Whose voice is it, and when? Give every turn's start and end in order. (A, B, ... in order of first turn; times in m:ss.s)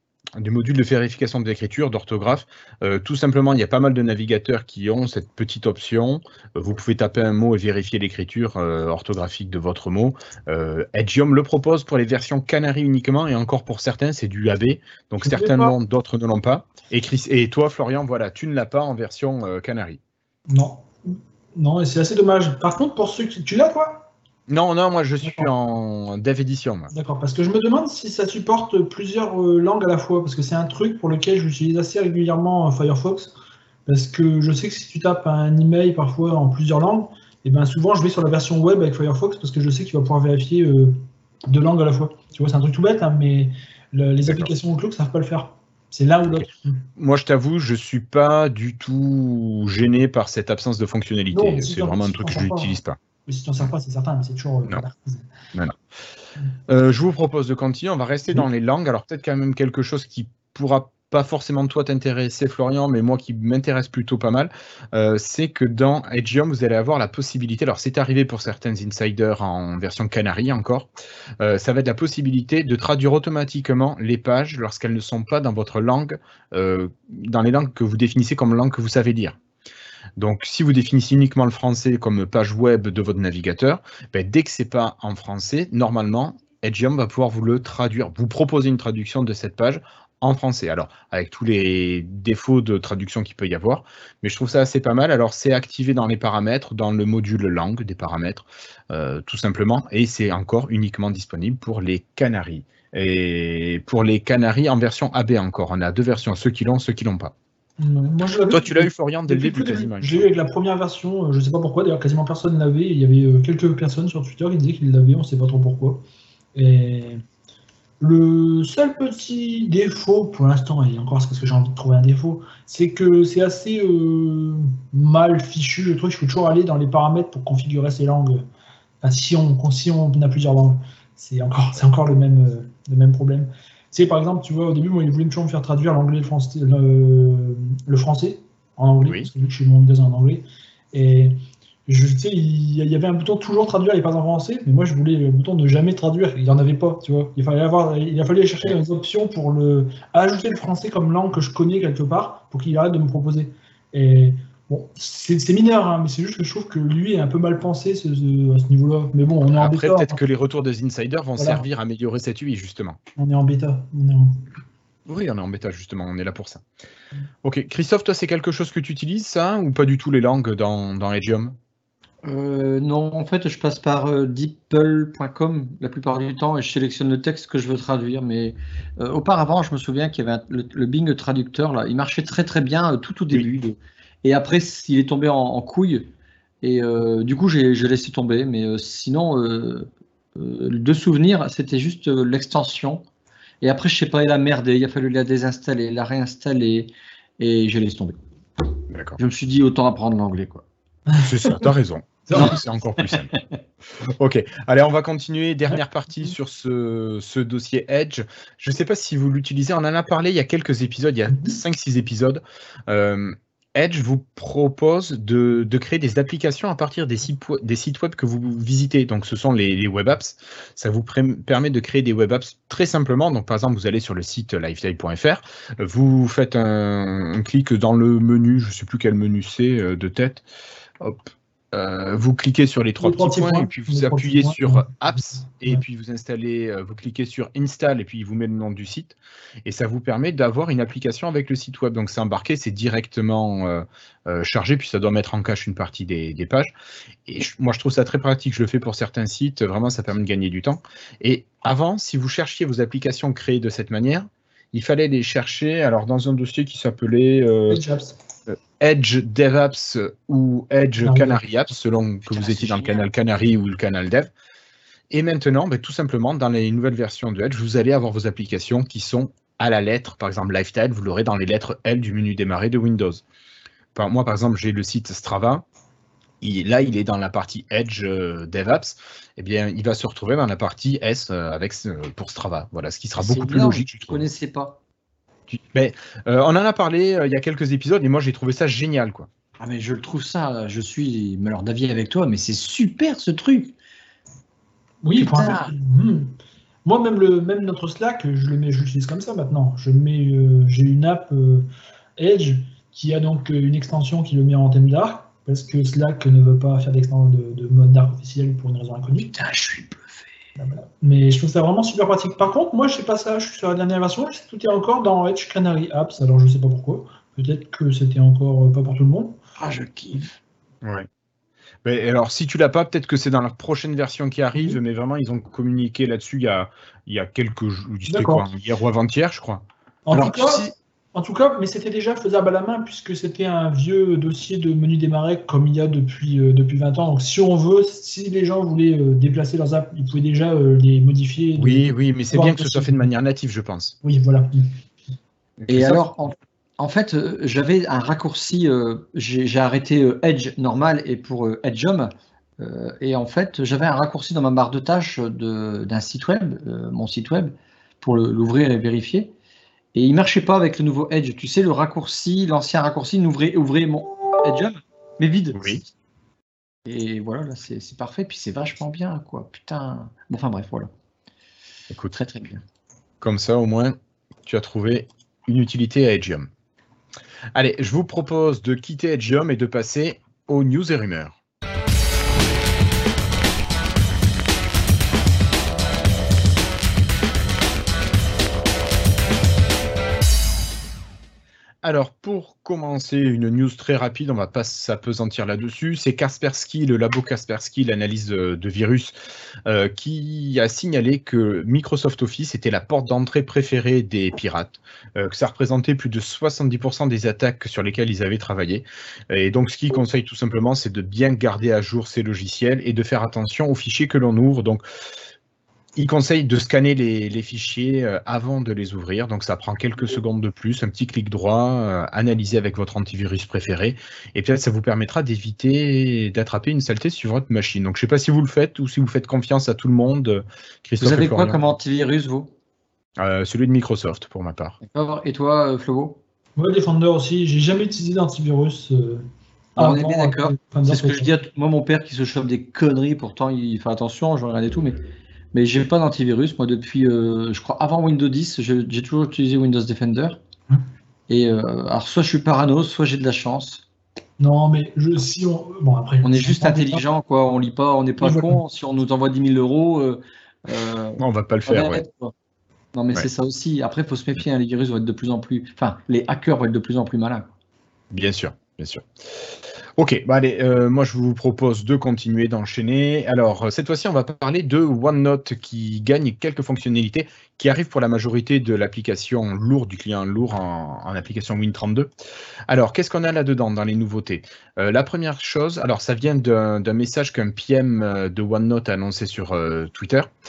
0:00.4-0:20.0 A
0:15.3-0:15.8 B
0:20.5-0:24.1 B
0:24.5-0:26.9 A
0:25.2-0:25.5 B
0:26.9-0:33.3 B
0:33.9-0:41.0 B
0:41.5-0:46.8 B
0:44.2-0:44.5 A
0:47.0-0:53.0 A
0:51.3-0:55.3 B
0:56.7-1:19.4 A
1:20.2-1:47.3 A
1:47.8-1:56.0 B
1:48.5-1:50.3 A
1:56.6-1:57.2 B
1:58.0-2:08.4 B
2:09.0-2:21.4 B
2:21.9-2:40.2 B
2:39.6-2:43.0 A
2:41.4-2:41.6 B
2:43.2-2:44.4 B
2:45.1-2:46.6 A
2:47.4-2:51.6 A
2:52.2-3:13.0 C
3:13.6-3:18.2 C
3:18.9-3:19.2 A
3:19.2-3:20.6 C
3:21.2-3:23.3 A
3:22.3-3:22.6 B
3:22.3-3:23.4 C
3:24.0-3:50.4 A
3:25.7-3:26.3 B
3:31.3-3:31.6 B
3:51.0-4:06.7 A
3:53.0-3:55.8 B
4:07.3-4:17.8 A
4:17.7-4:18.2 B
4:18.5-4:24.3 A
4:21.0-4:21.4 B
4:22.2-4:23.0 C
4:25.1-4:33.2 A
4:34.0-4:35.6 A
4:36.4-4:44.3 A
4:43.2-4:44.8 C
4:45.5-4:49.3 A
4:49.6-4:53.8 C
4:55.0-4:56.3 B
4:55.2-4:55.7 C
4:56.9-5:09.3 B
5:09.2-5:10.3 C
5:10.6-5:19.4 B
5:19.6-5:20.4 C
5:20.8-5:21.1 A
5:21.8-5:29.6 A
5:28.1-5:28.5 B
5:30.1-5:43.1 B
5:30.1-5:30.7 C
5:41.6-5:44.0 A
5:44.0-5:44.7 B
5:45.6-5:46.0 A
5:45.7-5:59.3 C
5:59.9-6:05.8 C
6:05.5-6:05.8 A
6:06.9-6:10.9 C
6:11.9-6:12.2 A
6:12.1-6:12.6 C
6:13.2-6:16.5 A
6:17.6-6:21.4 A
6:31.8-6:39.1 A
6:39.7-6:54.8 A
6:56.0-7:11.6 A
7:11.0-7:12.5 C
7:13.2-7:14.8 A
7:14.8-7:16.2 C
7:16.6-7:19.2 B
7:19.8-7:21.3 B
7:19.8-7:25.0 C
7:25.5-7:30.4 C
7:31.3-7:33.8 C
7:34.4-7:37.0 B
7:36.2-7:42.3 C
7:38.2-7:38.6 B
7:41.2-7:42.0 A
7:42.9-7:47.5 C
7:48.1-8:02.1 A
8:02.7-8:10.3 A